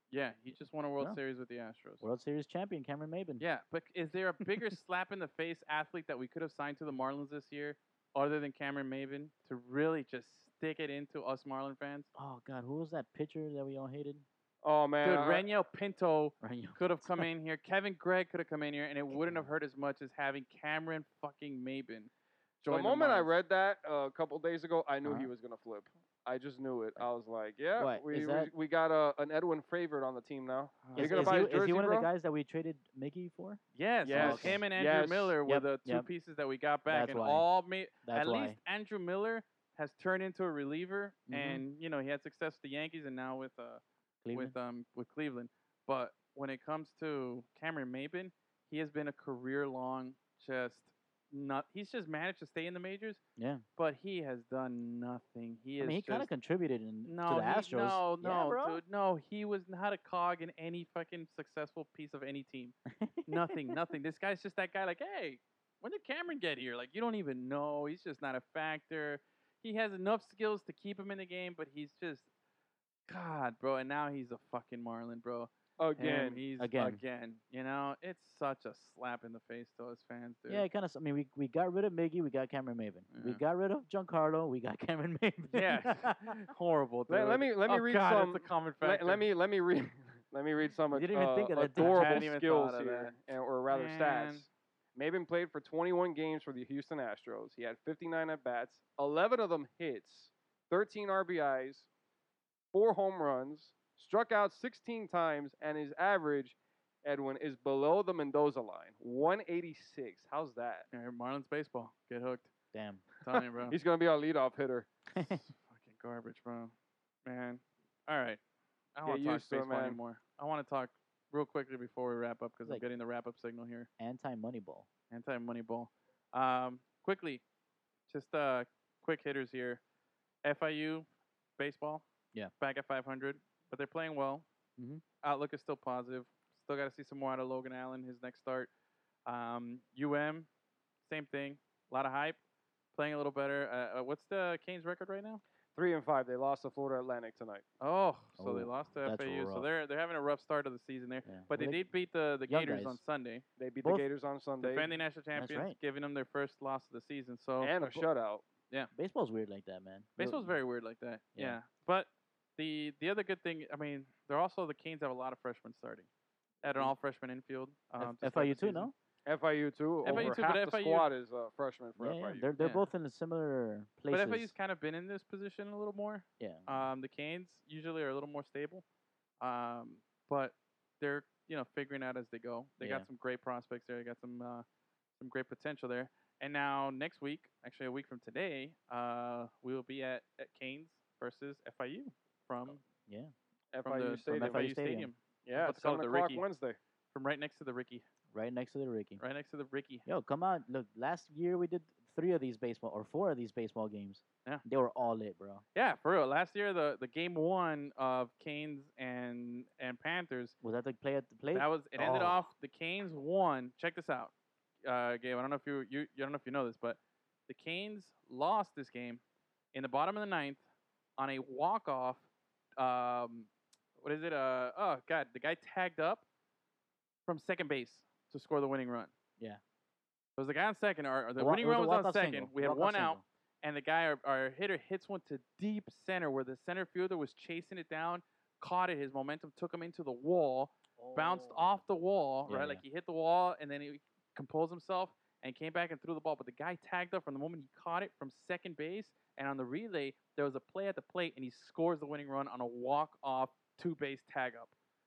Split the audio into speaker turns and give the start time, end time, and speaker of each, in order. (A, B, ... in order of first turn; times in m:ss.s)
0:00.1-0:02.0 A
0:02.0-0:03.4 B
0:03.4-0:12.1 A
0:12.2-0:14.3 B
0:14.6-0:15.4 C
0:15.0-0:22.1 A
0:16.4-0:17.3 B
0:19.1-0:19.5 B
0:22.6-0:23.3 A
0:22.7-0:32.1 C
0:25.0-0:25.3 B
0:27.8-0:28.5 B
0:30.8-0:31.4 A
0:31.0-0:34.6 B
0:33.8-0:53.2 A
0:34.1-0:35.4 C
0:35.5-0:36.1 B
0:36.9-0:37.5 B
0:38.0-0:38.6 B
0:41.3-0:41.6 B
0:44.2-0:44.6 B
0:53.4-0:53.6 B
0:53.8-0:56.3 A
0:55.8-0:58.8 B
0:57.0-1:02.8 A
1:02.9-1:03.8 B
1:03.3-1:12.3 A
1:13.1-1:20.7 A
1:15.8-1:16.4 C
1:16.6-1:17.0 B
1:20.5-1:26.4 B
1:23.1-1:23.4 A
1:25.5-1:29.2 A
1:27.1-1:41.9 C
1:30.9-1:32.3 B
1:31.6-1:33.2 A
1:33.7-1:34.5 A
1:42.7-1:50.9 C
1:50.9-1:52.5 A
1:52.7-1:53.0 B
1:53.2-1:53.8 A
1:53.7-1:54.9 C
1:55.1-1:55.4 B
1:55.2-1:56.7 A
1:57.2-1:58.4 A
1:59.0-2:03.9 A
1:59.1-2:00.0 C
2:04.0-2:04.9 B
2:05.1-2:07.4 A
2:08.1-2:09.8 A
2:10.4-2:12.1 A
2:12.6-2:14.5 A
2:15.2-2:18.7 A
2:19.3-2:20.5 A
2:21.0-2:22.4 A
2:22.9-2:25.4 A
2:25.8-2:27.6 C
2:27.8-2:33.4 A
2:28.4-2:29.7 B
2:31.3-2:31.8 B
2:32.5-2:33.0 B
2:33.6-2:34.9 C
2:34.6-2:38.1 A
2:35.4-2:35.8 B
2:37.6-2:38.4 C
2:38.9-2:40.6 B
2:40.2-2:46.1 A
2:46.6-2:48.9 A
2:46.7-2:46.9 B
2:48.0-2:48.9 B
2:49.3-2:52.5 C
2:50.0-2:50.4 B
2:50.0-2:51.1 A
2:52.0-2:54.5 B
2:52.6-2:52.9 A
2:54.1-2:58.8 A
2:56.4-2:56.9 B
2:59.4-3:04.6 A
3:02.8-3:03.1 B
3:05.2-3:12.8 A
3:12.7-3:13.3 B
3:13.7-3:14.7 C
3:13.8-3:16.4 A
3:14.3-3:15.1 B
3:15.5-3:16.8 C
3:17.1-3:18.1 A
3:18.3-3:19.2 B
3:19.2-3:20.1 A
3:20.1-3:25.6 B
3:25.8-3:30.6 A
3:30.6-3:32.4 B
3:31.5-3:34.3 A
3:34.8-3:39.2 A
3:39.7-3:40.6 A
3:41.2-3:42.3 A
3:42.8-3:46.2 A
3:47.3-3:49.1 A
3:50.4-4:14.7 A
3:51.4-3:53.2 B
4:01.0-4:01.8 B
4:02.5-4:02.8 B